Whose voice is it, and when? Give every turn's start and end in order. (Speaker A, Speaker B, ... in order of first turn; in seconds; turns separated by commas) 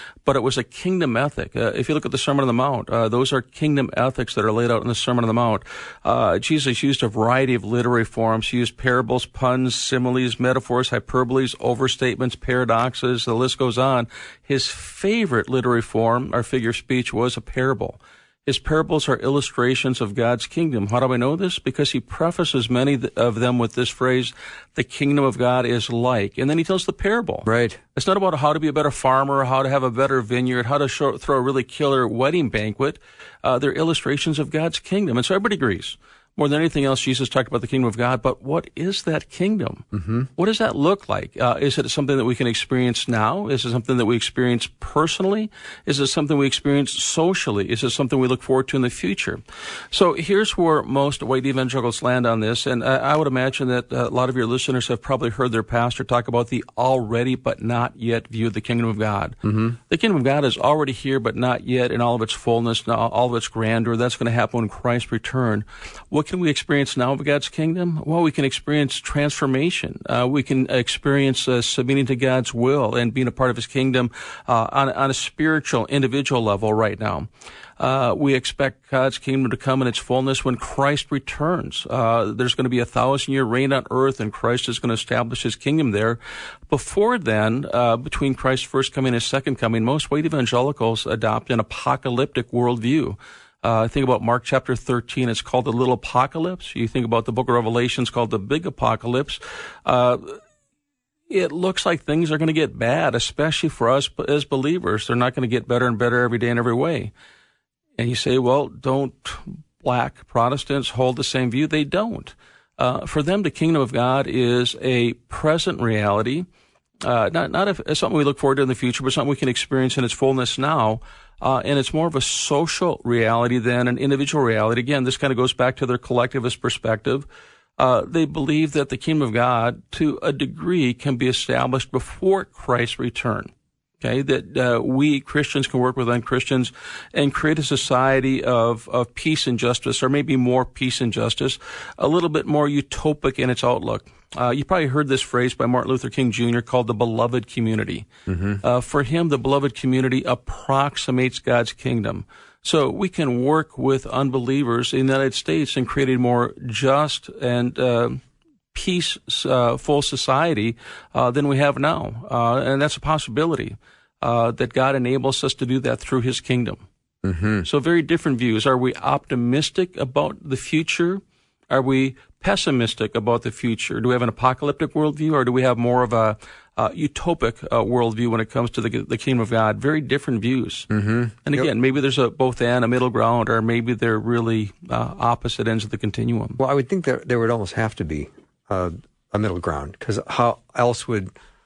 Speaker A: 0.2-49.4, Speaker B: 27.4-27.8, Speaker B: 39.9-40.3, Speaker A: 49.9-59.4, Speaker B: 59.4-59.8, Speaker A: 59.9-77.3, Speaker A: 77.8-100.4, Speaker A: 101.3-107.1, Speaker A: 108.0-116.5, Speaker A: 117.0-127.2, Speaker A: 127.8-148.1, Speaker B: 148.3-148.6, Speaker A: 148.6-166.8, Speaker B: 167.2-167.7, Speaker A: 167.6-180.9, Speaker B: 180.9-181.7, Speaker A: 181.4-186.6, Speaker B: 186.6-191.3